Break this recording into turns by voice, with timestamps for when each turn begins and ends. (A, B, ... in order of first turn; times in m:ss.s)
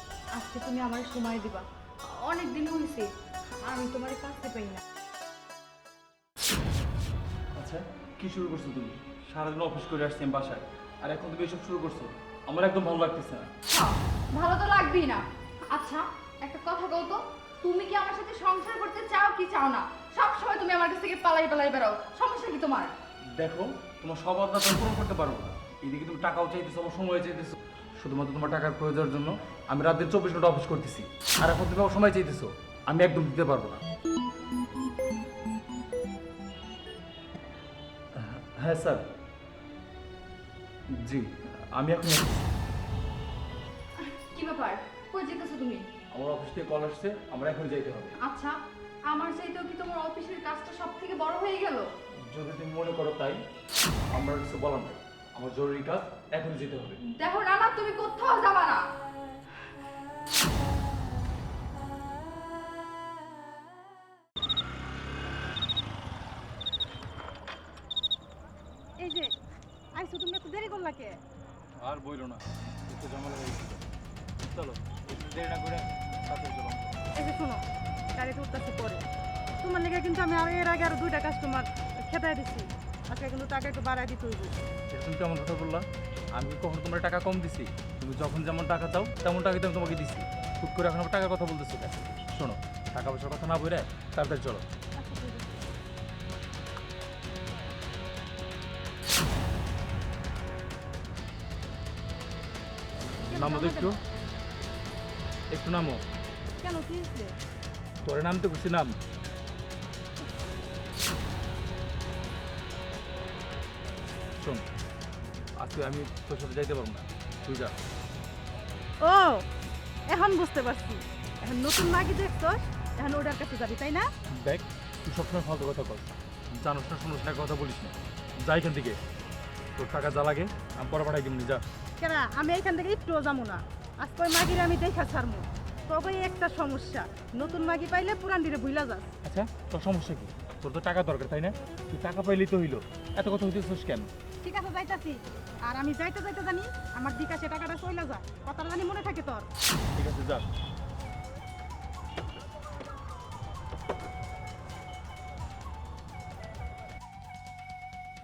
0:00.4-0:04.8 A
0:07.6-0:13.5 B
0:13.7-0:22.9 A
0:23.4-0:33.8 B
0:38.2-0:39.0 B
0:41.0-0:42.5 B
0:44.0-0:45.9 A
0:46.1-0:48.2 B
0:48.2-0:48.6 A
0:49.1-0:51.9 A
0:52.3-0:53.4 B
0:54.1-0:57.0 B
0:57.0-0:58.8 A
1:09.0-1:09.3 C
1:10.0-1:11.2 C
1:11.8-1:13.9 B
1:14.4-1:17.0 B
1:17.2-1:17.6 C
1:18.2-1:19.0 C
1:19.6-1:24.5 C
1:24.9-1:34.6 B
1:35.0-1:35.5 C
1:43.3-1:44.0 B
1:43.3-1:44.0 C
1:45.5-1:46.0 B
1:46.6-1:47.3 C
1:48.0-1:49.0 B
1:54.4-1:54.6 B
1:55.6-1:57.7 B
1:59.0-1:59.4 C
2:00.1-2:04.1 C
2:04.4-2:09.0 B
2:09.8-2:11.6 B
2:12.0-2:19.1 C
2:19.2-2:24.1 B
2:24.4-2:29.5 C
2:30.0-2:30.5 B